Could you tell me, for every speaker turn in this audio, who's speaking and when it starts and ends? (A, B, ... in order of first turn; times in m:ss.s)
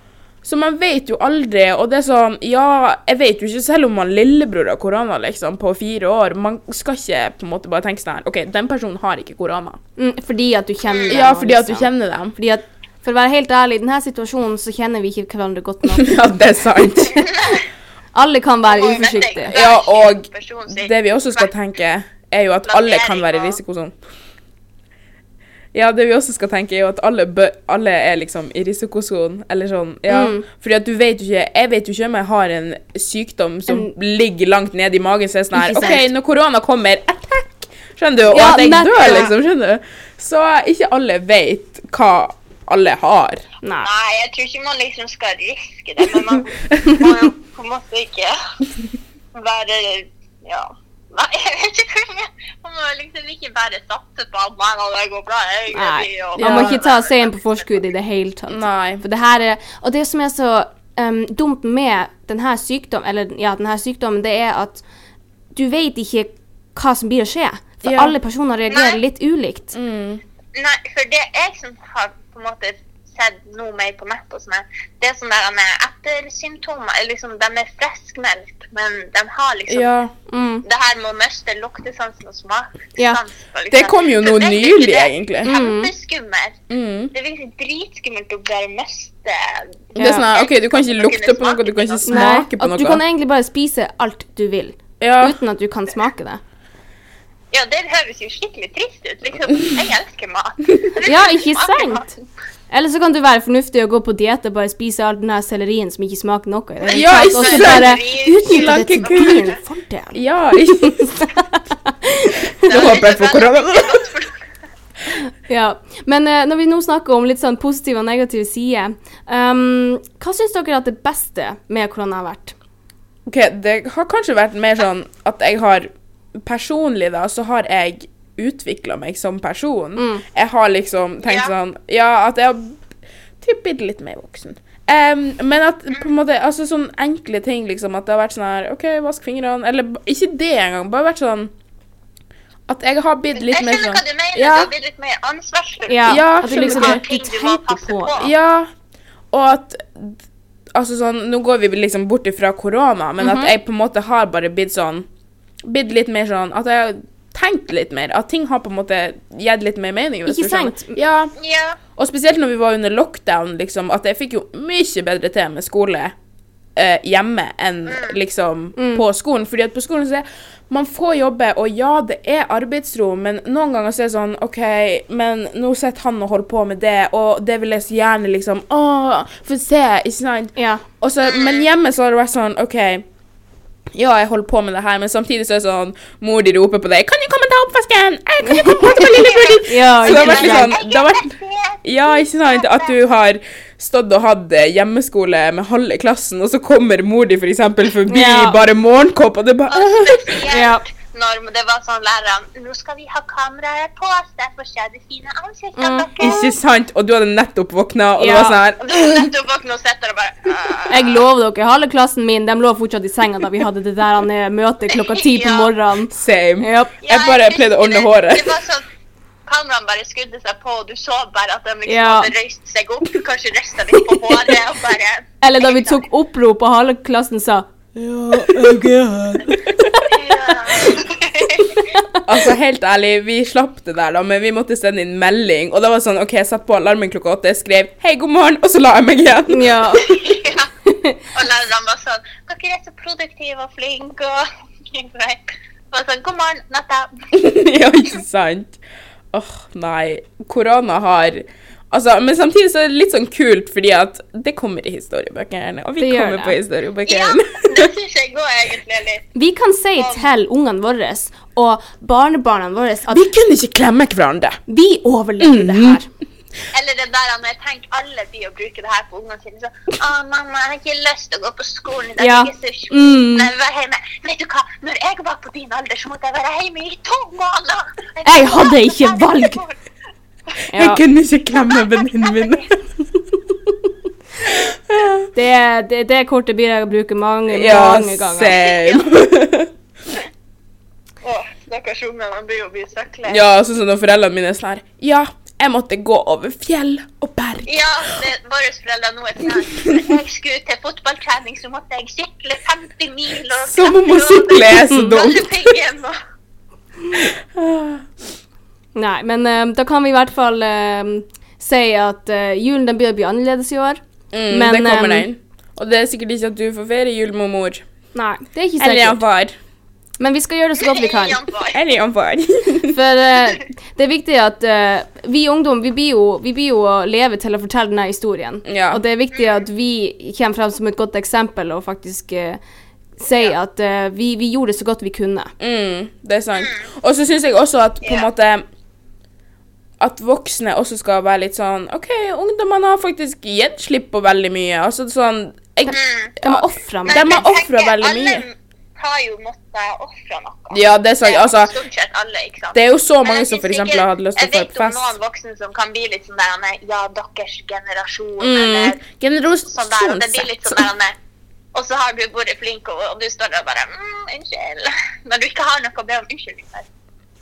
0:00.4-0:09.8 A
0:10.0-0:16.2 B
0:10.9-0:11.2 C
0:11.1-0:12.4 A
0:15.8-0:17.3 A
0:16.9-0:17.3 B
0:17.3-0:17.6 C
0:18.1-0:19.5 B
0:18.6-0:21.5 C
0:19.5-0:23.9 A
0:22.7-0:23.6 C
0:25.7-0:43.4 A
0:30.1-0:30.5 B
0:33.7-0:33.9 B
0:35.5-0:36.1 B
0:38.3-0:39.3 B
0:43.6-0:43.9 B
0:43.8-0:48.4 C
0:49.3-0:57.5 C
0:55.7-1:04.8 B
0:56.3-0:56.8 A
0:58.5-0:59.0 A
1:05.6-1:09.8 B
1:07.8-1:08.2 A
1:08.7-1:09.0 C
1:09.7-1:10.2 A
1:10.6-1:19.9 C
1:19.7-1:20.1 A
1:20.3-1:20.7 B
1:20.6-1:26.6 C
1:23.7-1:25.5 A
1:25.4-1:25.9 B
1:26.7-1:27.1 A
1:27.1-1:32.4 C
1:30.0-1:33.0 A
1:30.0-1:30.3 B
1:32.1-1:36.4 B
1:35.0-1:35.4 A
1:37.5-1:42.2 C
1:41.0-1:42.1 B
1:42.7-1:52.8 B
1:46.8-1:49.6 C
1:46.9-1:49.5 A
1:50.1-1:51.2 A
1:52.6-1:54.0 A
1:52.6-1:54.4 C
1:55.5-2:02.6 B
2:03.3-2:12.8 A
2:10.0-2:10.2 B
2:11.2-2:11.5 C
2:13.4-2:21.5 A
2:22.7-2:24.7 A
2:23.4-2:28.3 C
2:25.9-2:28.2 B
2:26.1-2:27.0 A
2:28.2-2:28.7 A
2:29.3-2:30.2 A
2:30.8-2:35.1 A
2:33.2-2:33.5 B
2:35.6-2:41.3 A
2:40.3-2:41.0 B
2:41.4-2:41.8 C
2:42.0-2:46.1 A
2:46.8-3:03.0 A
2:47.9-2:48.2 C
2:48.8-2:49.0 B
3:00.6-3:00.8 B
3:01.2-3:01.7 C
3:03.9-3:20.4 A
3:08.4-3:10.7 B
3:08.8-3:13.0 C
3:18.1-3:18.6 B
3:19.7-3:26.5 C
3:20.5-3:20.8 B
3:25.8-3:26.5 B
3:26.2-3:29.3 A
3:28.2-3:28.6 B
3:28.8-3:31.2 C
3:30.9-3:36.9 B
3:34.9-3:35.7 C
3:36.1-3:38.5 A
3:37.0-3:38.8 C
3:39.5-3:46.0 C
3:41.9-3:42.3 B
3:45.4-3:47.7 B
3:48.0-3:50.0 A
3:48.3-3:50.3 B
3:50.1-3:51.8 C
3:51.8-3:52.2 B
3:52.2-3:59.9 A
3:59.5-4:00.2 B
4:00.0-4:00.7 C
4:00.9-4:01.2 B
4:01.3-4:07.1 C
4:07.3-4:08.8 A
4:09.3-4:17.9 A
4:16.0-4:16.6 B
4:17.1-4:19.3 C
4:19.4-4:23.3 B
4:20.0-4:20.2 C
4:23.1-4:24.6 A
4:24.7-4:26.1 B
4:25.4-4:26.0 A
4:26.7-4:39.8 C
4:32.2-4:33.5 B
4:38.2-4:39.6 B
4:40.7-4:41.0 B
4:40.8-4:42.8 A
4:41.5-4:42.7 C
4:44.5-4:45.3 A
4:45.3-4:48.6 B
4:47.5-4:49.7 A
4:48.5-4:49.1 C
4:51.2-4:53.5 C
4:53.3-4:58.2 A
4:57.7-5:06.2 C
4:59.7-5:00.1 A
5:03.6-5:05.8 A
5:04.9-5:05.2 B
5:07.1-5:08.0 A
5:09.0-5:15.3 B
5:14.3-5:17.8 A
5:18.1-5:19.2 B
5:18.8-5:19.5 A
5:20.2-5:21.4 B
5:20.8-5:21.8 C
5:21.7-5:23.0 A
5:22.9-5:32.6 B
5:28.7-5:29.0 A
5:29.3-5:29.6 C
5:33.2-5:35.5 B
5:35.6-5:38.6 A
5:36.6-5:36.9 C
5:38.0-5:38.3 C
5:40.0-5:48.4 A
5:45.9-5:47.4 B
5:45.9-5:46.3 C
5:47.1-5:59.0 C
5:50.7-5:51.8 A
5:52.7-5:55.2 A
5:58.4-6:00.9 A
5:59.7-6:01.2 C
6:01.7-6:06.9 C